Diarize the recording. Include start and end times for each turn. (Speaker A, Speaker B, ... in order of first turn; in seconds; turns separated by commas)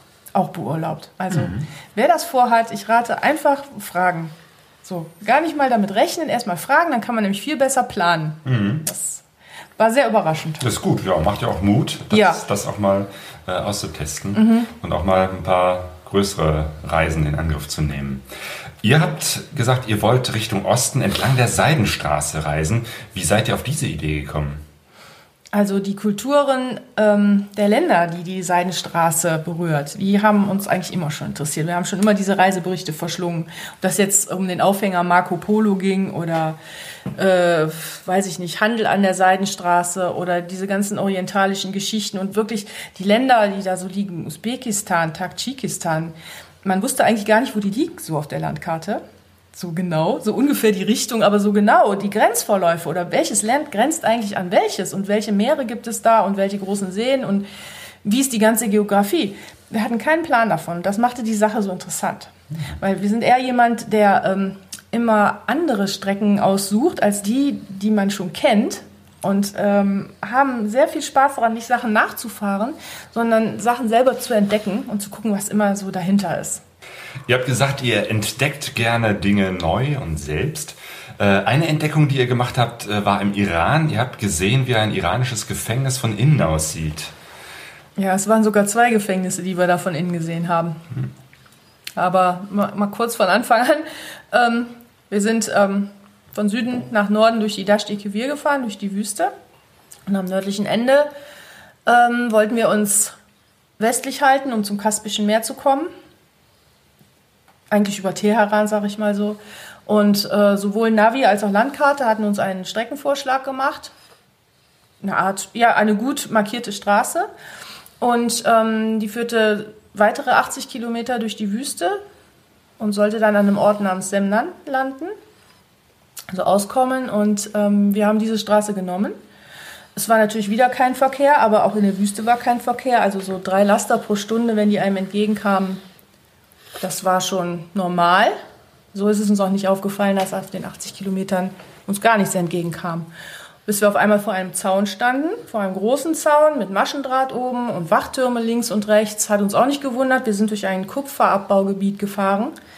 Speaker A: 0.3-4.3, Speaker B: 1.3-1.7, Speaker A: 4.8-9.2, Speaker B: 8.4-8.8, Speaker A: 9.8-10.7, Speaker B: 10.6-18.2, Speaker A: 12.1-12.4, Speaker A: 14.3-14.7, Speaker B: 18.8-24.6, Speaker A: 25.5-36.6, Speaker A: 37.1-49.0, Speaker A: 49.5-57.5, Speaker A: 58.0-76.6, Speaker B: 77.3-87.1, Speaker A: 88.0-90.8, Speaker A: 92.0-99.3, Speaker A: 100.1-101.1, Speaker A: 101.8-103.2, Speaker A: 103.8-105.9, Speaker A: 107.7-113.9, Speaker A: 115.0-117.3, Speaker A: 118.0-122.0, Speaker A: 122.8-125.1, Speaker A: 126.3-129.2, Speaker A: 129.9-135.8, Speaker A: 136.8-138.3, Speaker A: 138.9-143.1, Speaker A: 143.7-152.5